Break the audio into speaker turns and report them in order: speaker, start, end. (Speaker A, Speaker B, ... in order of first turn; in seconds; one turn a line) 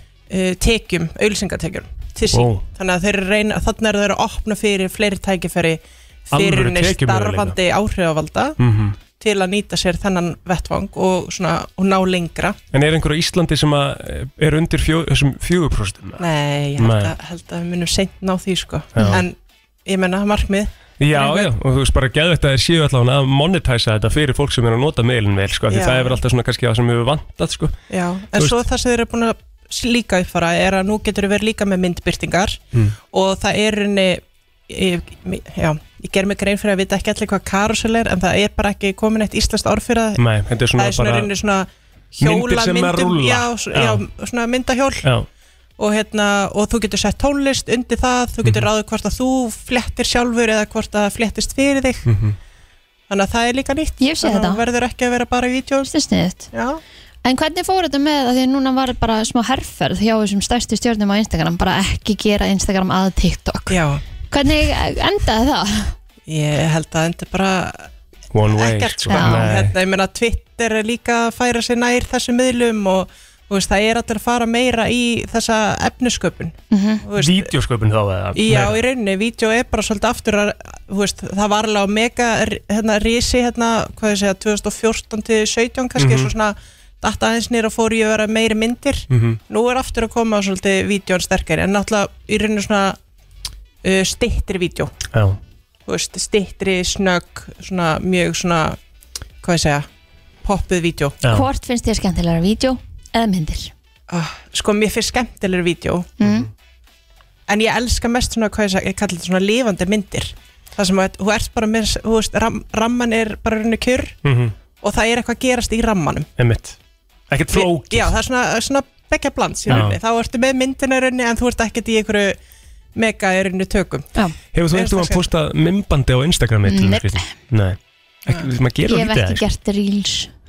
Speaker A: 0.3-8.6
Speaker B: 2.3-2.6
Speaker B: 6.3-7.6
Speaker B: 8.6-9.0
Speaker A: 9.2-12.6
Speaker B: 12.7-16.2
Speaker A: 16.2-21.5
Speaker B: 16.8-17.1
Speaker B: 18.9-19.2
Speaker B: 21.0-27.8
Speaker A: 25.7-26.2
Speaker A: 27.9-40.2
Speaker B: 28.3-28.6
Speaker B: 40.2-41.3
Speaker A: 40.7-45.1
Speaker B: 42.2-44.0
Speaker A: 45.8-52.1
Speaker B: 48.4-48.7
Speaker B: 52.0-52.4
Speaker A: 53.1-55.9
Speaker C: 54.0-54.6
Speaker C: 55.8-56.5
Speaker A: 56.5-56.8
Speaker C: 57.2-65.9
Speaker A: 63.7-64.0
Speaker A: 66.3-67.9
Speaker B: 68.3-69.8
Speaker A: 68.5-77.5
Speaker C: 69.1-69.5
Speaker C: 76.7-77.0
Speaker B: 77.2-78.8
Speaker A: 78.3-93.0
Speaker B: 86.0-86.3
Speaker B: 89.1-89.4
Speaker A: 93.8-94.9
Speaker B: 95.1-95.4
Speaker A: 95.9-98.8
Speaker A: 99.4-99.9
Speaker A: 100.4-101.2
Speaker B: 101.2-101.5
Speaker C: 101.3-103.7
Speaker A: 104.1-106.1
Speaker C: 106.2-106.5
Speaker B: 106.2-106.5
Speaker A: 107.5-114.2
Speaker B: 114.2-114.5
Speaker A: 114.8-116.3
Speaker B: 116.4-116.8
Speaker B: 117.3-118.2
Speaker A: 117.5-122.4
Speaker B: 119.7-120.0
Speaker A: 122.9-124.1
Speaker B: 124.5-129.4
Speaker A: 124.7-125.3
Speaker C: 126.7-127.3
Speaker C: 128.8-130.3